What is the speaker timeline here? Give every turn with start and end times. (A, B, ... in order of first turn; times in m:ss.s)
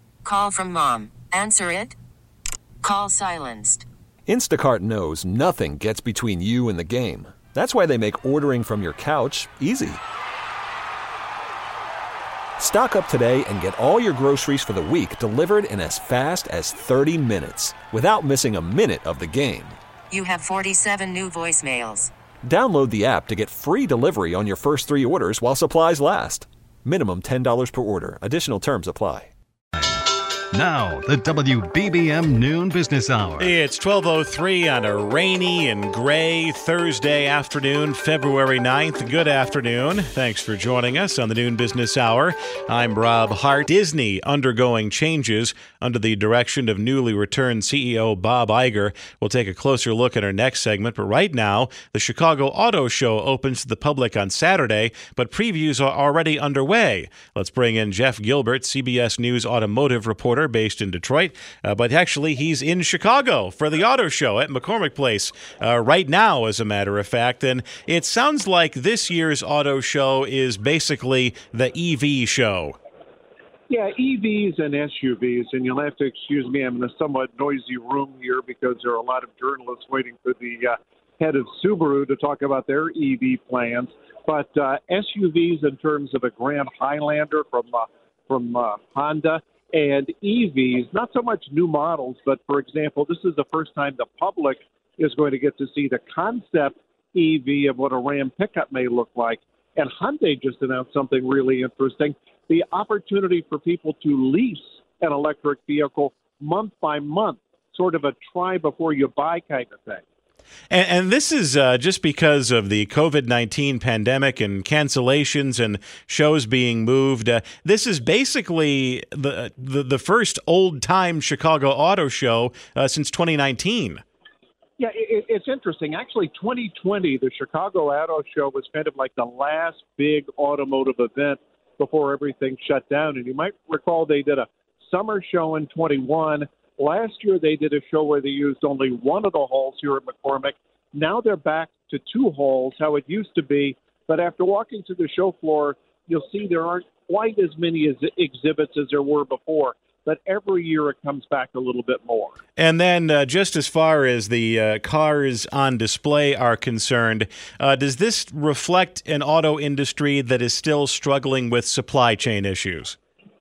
0:00.2-0:01.9 A
0:02.8-0:03.8 A
0:04.2-0:10.0 B
0:12.6-0:19.8 B
0:20.1-0:22.1 A
0:22.4-0:29.3 B
0:30.5-0:33.5 C
0:33.4-1:12.8 D
1:13.7-1:50.0 E
1:50.7-2:04.0 D
2:04.8-2:32.4 E
2:32.6-2:43.0 D